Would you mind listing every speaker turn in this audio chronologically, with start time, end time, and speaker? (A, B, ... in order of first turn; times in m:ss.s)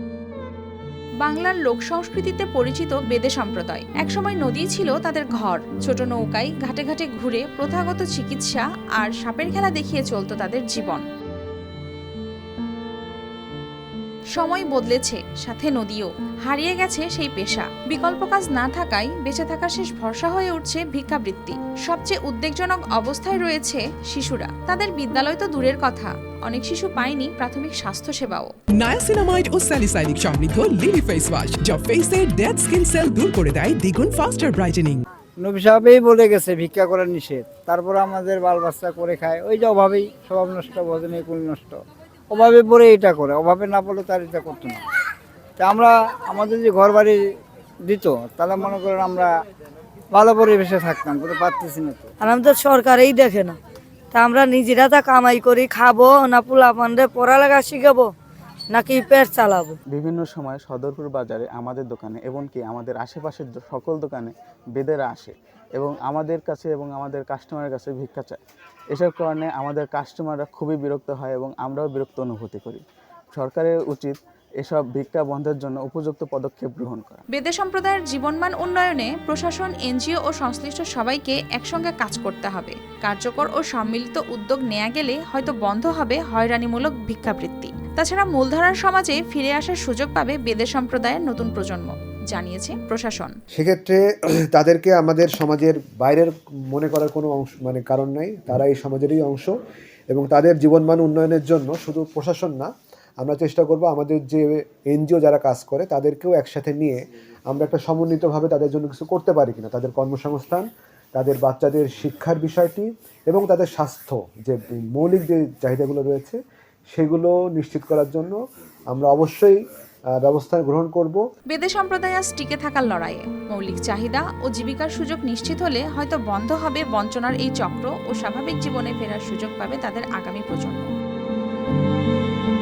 0:01.2-0:11.0 A
0:14.4-0:28.5 A
0:28.8-0:35.0 B
0:35.4-0:41.8 C
0:42.3-0:44.8 C
0:45.6-0:47.2 C
0:47.8-0:49.3 C
0:50.1-0:52.1 C
0:52.2-0:53.6 D
0:54.1-0:58.1 D
0:58.7-0:59.8 D
0:59.9-1:08.4 E
1:08.9-1:17.2 E
1:17.3-1:33.4 A
1:33.5-1:34.0 F
1:34.5-1:39.5 F
1:40.1-1:42.7 F
1:43.2-1:47.0 F
1:47.5-1:56.4 F
1:56.9-1:58.4 F
1:58.9-1:59.6 F
2:00.2-2:01.2 F
2:01.5-2:10.9 A